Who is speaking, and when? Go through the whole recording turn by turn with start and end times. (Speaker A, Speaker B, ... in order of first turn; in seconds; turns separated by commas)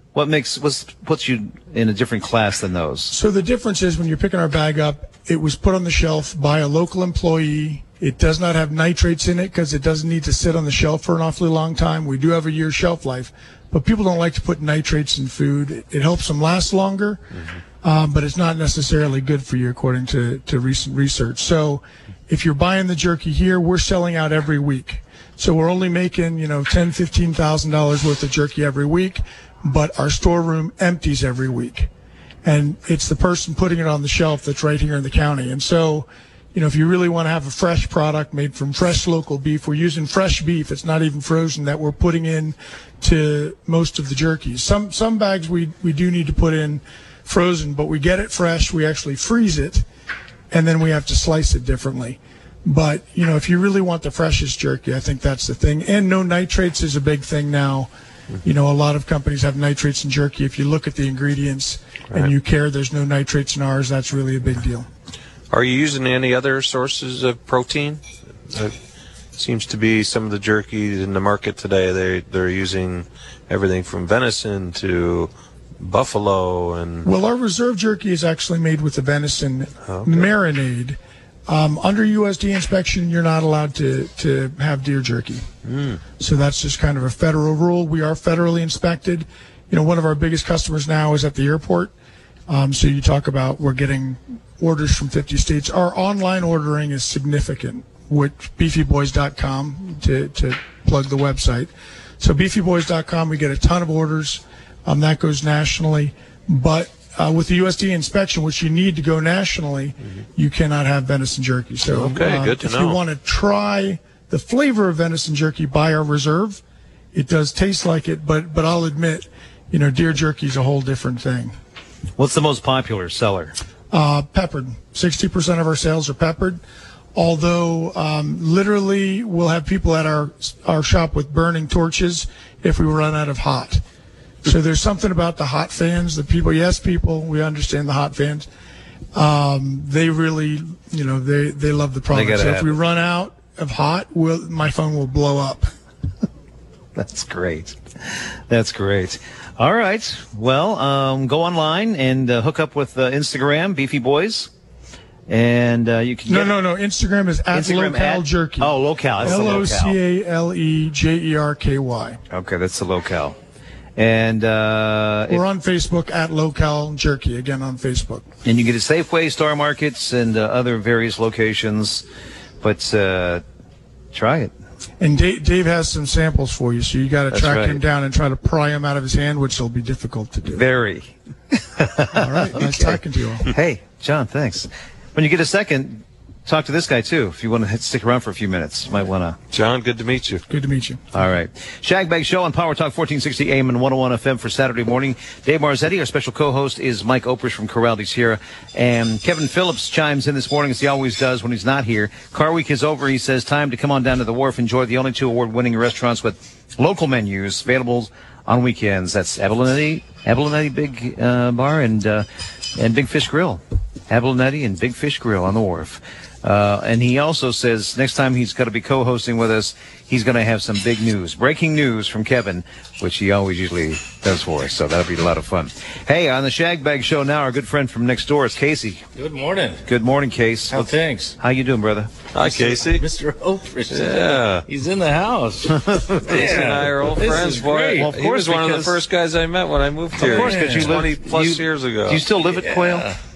Speaker A: 0.1-3.1, Speaker B: 3.1-17.2, Speaker B: 17.8-31.9, Speaker B: 32.4-49.9, Speaker B: 50.5-57.9, Speaker B: 58.4-64.9, Speaker C: 65.5-68.7, Speaker C: 69.3-77.1, Speaker B: 77.0-85.5, Speaker C: 79.8-80.3, Speaker C: 85.7-86.0, Speaker B: 86.2-91.9, Speaker B: 92.5-116.6, Speaker C: 111.9-113.0, Speaker B: 117.1-121.5, Speaker A: 122.2-123.5, Speaker B: 123.9-126.6, Speaker B: 127.2-133.8, Speaker B: 134.4-138.5, Speaker B: 139.2-145.7, Speaker A: 142.1-142.7, Speaker A: 146.9-154.5, Speaker A: 155.3-156.5, Speaker B: 156.3-162.2, Speaker A: 157.5-160.0, Speaker A: 162.3-163.4, Speaker A: 164.0-165.4, Speaker B: 165.3-168.3, Speaker A: 168.4-172.1, Speaker A: 172.6-173.4, Speaker A: 174.1-174.5, Speaker B: 175.0-180.7, Speaker A: 177.3-177.8, Speaker A: 180.5-189.4, Speaker B: 182.2-183.5, Speaker C: 189.5-190.4, Speaker B: 190.5-191.1, Speaker A: 191.1-229.0, Speaker D: 229.2-229.8, Speaker A: 229.9-232.3, Speaker D: 230.7-231.4, Speaker C: 232.3-233.1, Speaker D: 232.4-238.1, Speaker C: 233.9-234.7, Speaker A: 235.9-236.8, Speaker C: 236.3-242.3, Speaker A: 237.9-239.0, Speaker A: 240.2-243.1, Speaker D: 240.3-241.0, Speaker D: 242.5-243.2